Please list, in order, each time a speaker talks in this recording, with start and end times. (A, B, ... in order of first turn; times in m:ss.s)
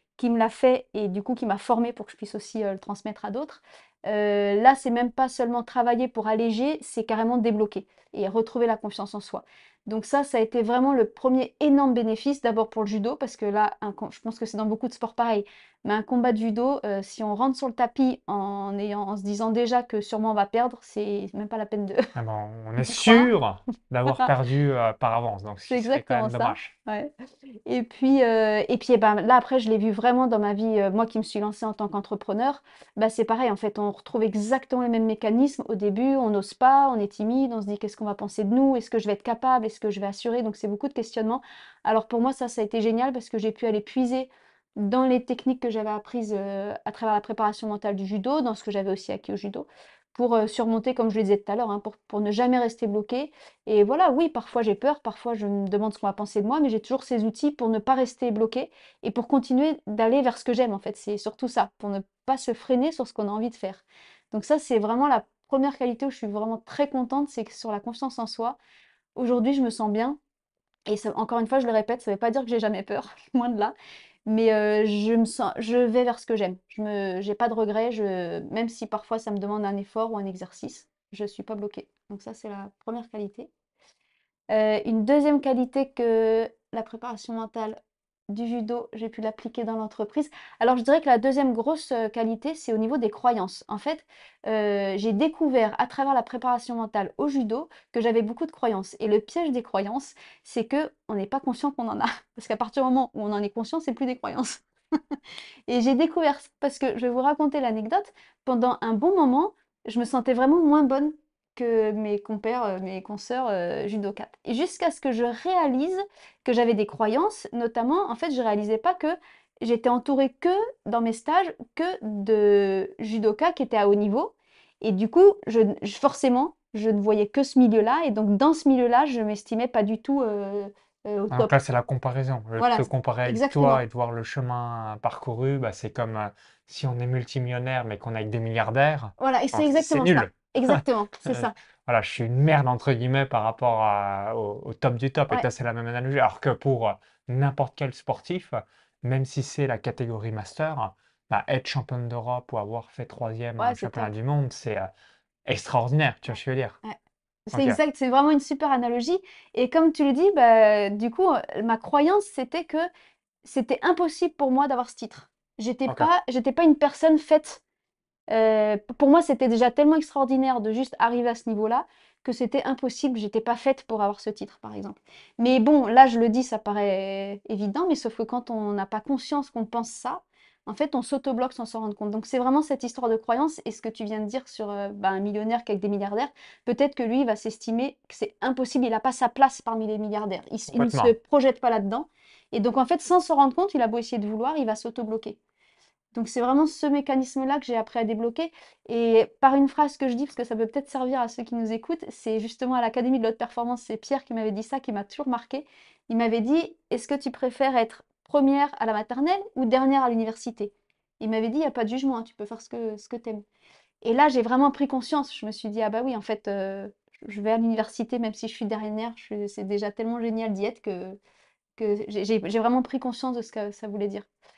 0:00.2-0:22.1 A
0:22.1-0:26.7 B
0:22.8-0:23.3 A
0:25.7-0:27.1 A
0:27.6-1:08.6 A
1:09.2-1:10.2 A
1:10.9-1:13.7 A
1:14.2-1:23.5 A
1:24.5-1:27.8 A
1:28.3-2:11.5 A
2:11.3-2:34.9 B
2:12.6-2:13.8 A
2:19.2-2:21.5 A
2:33.6-2:34.1 A
2:35.4-2:36.8 B
2:37.5-2:42.9 A
2:37.5-2:37.8 B
2:43.4-2:47.6 A
2:48.3-3:15.4 A
3:10.7-3:11.1 B
3:16.1-3:33.4 A
3:34.0-3:41.2 A
3:41.8-3:44.3 A